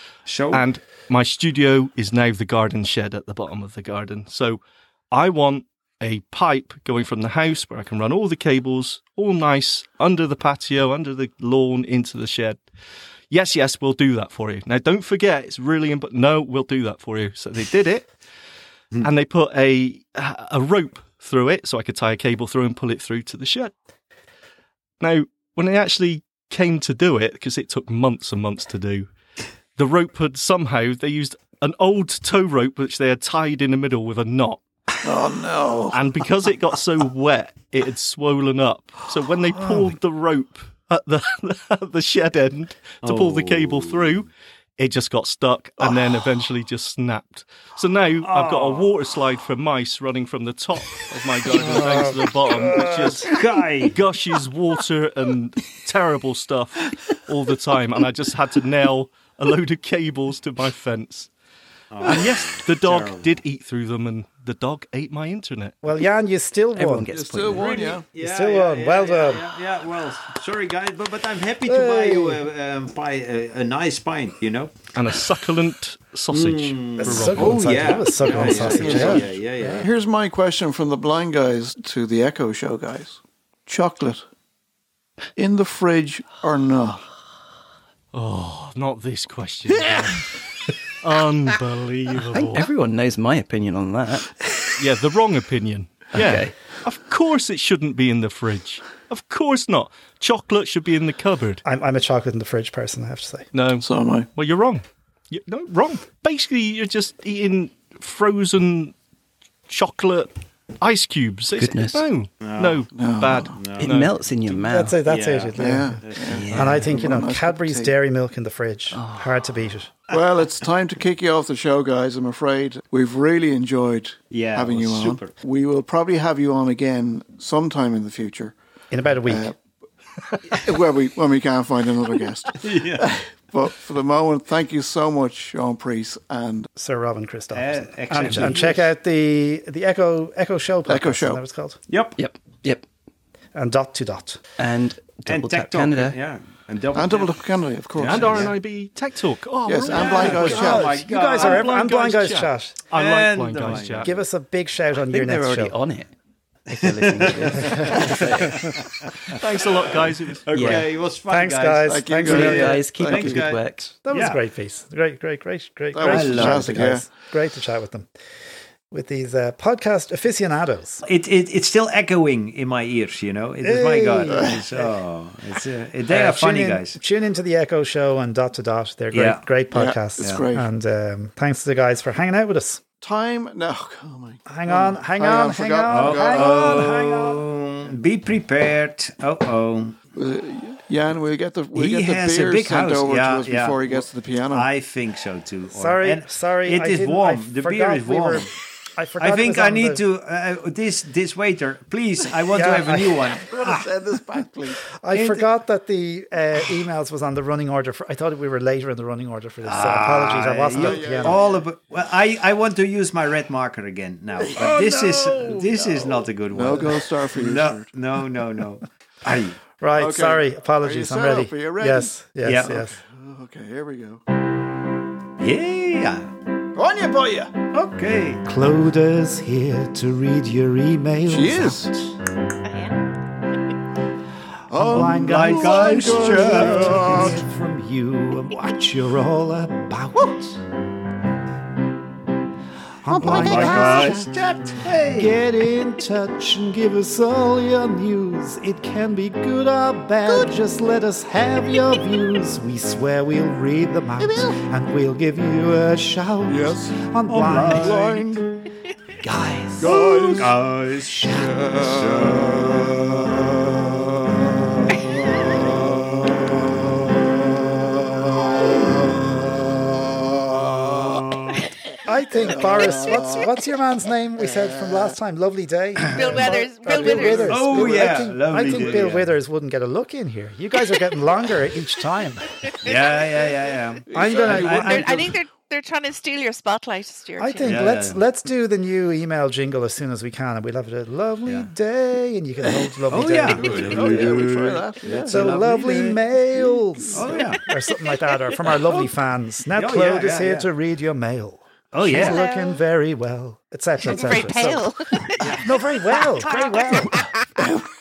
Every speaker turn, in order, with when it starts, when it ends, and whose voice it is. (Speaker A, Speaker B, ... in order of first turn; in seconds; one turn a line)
Speaker A: 0.3-0.7
Speaker B: 0.5-12.6
Speaker B: 13.3-18.1
Speaker B: 19.0-23.7
Speaker B: 25.0-29.1
Speaker B: 29.8-34.6
Speaker C: 35.0-36.0
Speaker B: 35.9-53.3
Speaker A: 43.0-44.2
Speaker A: 48.2-49.2
Speaker A: 51.5-52.1
Speaker D: 52.5-53.3
Speaker A: 53.3-54.0
Speaker B: 53.9-61.3
Speaker A: 61.9-63.4
Speaker B: 62.0-65.8
Speaker D: 65.8-67.1
Speaker E: 66.8-67.8
Speaker C: 67.1-68.0
Speaker A: 67.5-74.9
Speaker D: 68.1-69.5
Speaker D: 71.6-72.4
Speaker B: 74.9-77.7
Speaker A: 76.3-79.9
Speaker D: 77.0-79.9
Speaker C: 78.6-84.2
Speaker C: 85.4-87.1
Speaker B: 88.1-90.3
Speaker B: 91.0-92.7
Speaker E: 92.3-94.4
Speaker B: 94.8-101.6
Speaker E: 96.1-96.5
Speaker D: 101.7-103.5
Speaker B: 103.5-109.0
Speaker C: 103.8-104.3
Speaker B: 109.7-114.6
Speaker E: 111.5-112.0
Speaker A: 112.4-112.8
Speaker C: 112.9-113.5
Speaker A: 113.5-114.0
Speaker E: 113.8-115.0
Speaker D: 114.5-116.0
Speaker A: 115.0-116.8
Speaker C: 115.6-117.9
Speaker E: 116.3-116.8
Speaker D: 116.5-119.9
Speaker E: 118.9-119.4
Speaker C: 120.1-128.6
Speaker A: 124.3-125.3
Speaker D: 128.9-129.5
Speaker C: 129.2-129.6
Speaker C: 130.6-136.7
Speaker A: 132.6-133.1
Speaker D: 136.8-141.8
Speaker A: 137.5-138.9
Speaker B: 138.2-138.6
Speaker C: 140.9-141.4
Speaker A: 141.9-142.2
Speaker E: 142.2-142.8
Speaker D: 143.6-144.4
Speaker E: 144.6-146.2
Speaker A: 145.3-147.3
Speaker C: 146.9-148.5
Speaker B: 148.0-154.1
Speaker A: 148.0-148.5
Speaker C: 149.7-150.9
Speaker A: 149.9-151.8
Speaker D: 150.3-152.8
Speaker A: 152.9-154.1
Speaker D: 154.0-155.8
Speaker E: 155.1-156.1
Speaker E: 156.7-158.7
Speaker A: 156.7-159.1
Speaker B: 159.3-160.7
Speaker A: 159.9-164.4
Speaker E: 160.5-160.9
Speaker D: 160.6-162.9
Speaker C: 161.9-163.5
Speaker E: 162.2-164.0
Speaker D: 164.0-168.1
Speaker C: 165.9-167.1
Speaker A: 166.0-167.0
Speaker D: 168.9-171.0
Speaker A: 171.1-177.0
Speaker D: 173.6-174.9
Speaker D: 176.1-182.8
Speaker A: 179.1-179.4
Speaker C: 179.7-180.7
Speaker A: 180.2-180.4
Speaker C: 183.0-187.2
Speaker D: 184.5-187.4
Speaker A: 185.9-190.0
Speaker C: 190.1-194.7
Speaker A: 191.7-198.5
Speaker D: 195.7-200.0
Speaker A: 199.2-203.9
Speaker D: 202.5-203.3
Speaker C: 203.4-204.8
Speaker D: 205.0-211.4
Speaker A: 205.1-205.4
Speaker A: 209.6-219.6
Speaker C: 210.7-211.6
Speaker C: 214.4-217.9
Speaker D: 219.8-223.0
Speaker C: 220.0-224.2
Speaker A: 222.4-222.8
Speaker A: 225.4-226.3
Speaker C: 226.8-227.5
Speaker A: 227.8-228.4
Speaker D: 228.4-231.9
Speaker C: 231.3-231.9
Speaker F: 232.7-232.9
Speaker C: 234.7-237.4
Speaker D: 234.8-240.5
Speaker A: 234.9-237.3
Speaker D: 243.0-244.3
Speaker C: 243.1-244.3
Speaker A: 243.3-245.4
Speaker D: 245.1-258.3
Speaker C: 256.5-258.6
Speaker A: 257.4-257.9
Speaker E: 259.2-259.9
Speaker C: 259.8-263.3
Speaker A: 260.4-262.6
Speaker C: 264.9-266.5
Speaker C: 270.5-271.2
Speaker D: 272.1-282.5
Speaker C: 272.4-273.5
Speaker C: 274.4-275.1
Speaker F: 276.1-277.9
Speaker C: 276.2-279.1
Speaker A: 277.2-279.3
Speaker F: 282.7-283.0
Speaker A: 282.8-285.3
Speaker C: 284.1-285.3
Speaker D: 284.1-285.1
Speaker F: 284.7-287.9
Speaker D: 287.4-294.4
Speaker A: 287.6-288.2
Speaker A: 291.5-291.7
Speaker A: 293.1-296.2
Speaker C: 293.5-297.6
Speaker D: 295.3-304.9
Speaker A: 297.1-297.6
Speaker A: 299.8-300.7
Speaker A: 301.9-302.4
Speaker F: 302.1-302.8
Speaker F: 304.0-307.5
Speaker A: 305.4-305.7
Speaker D: 305.6-307.3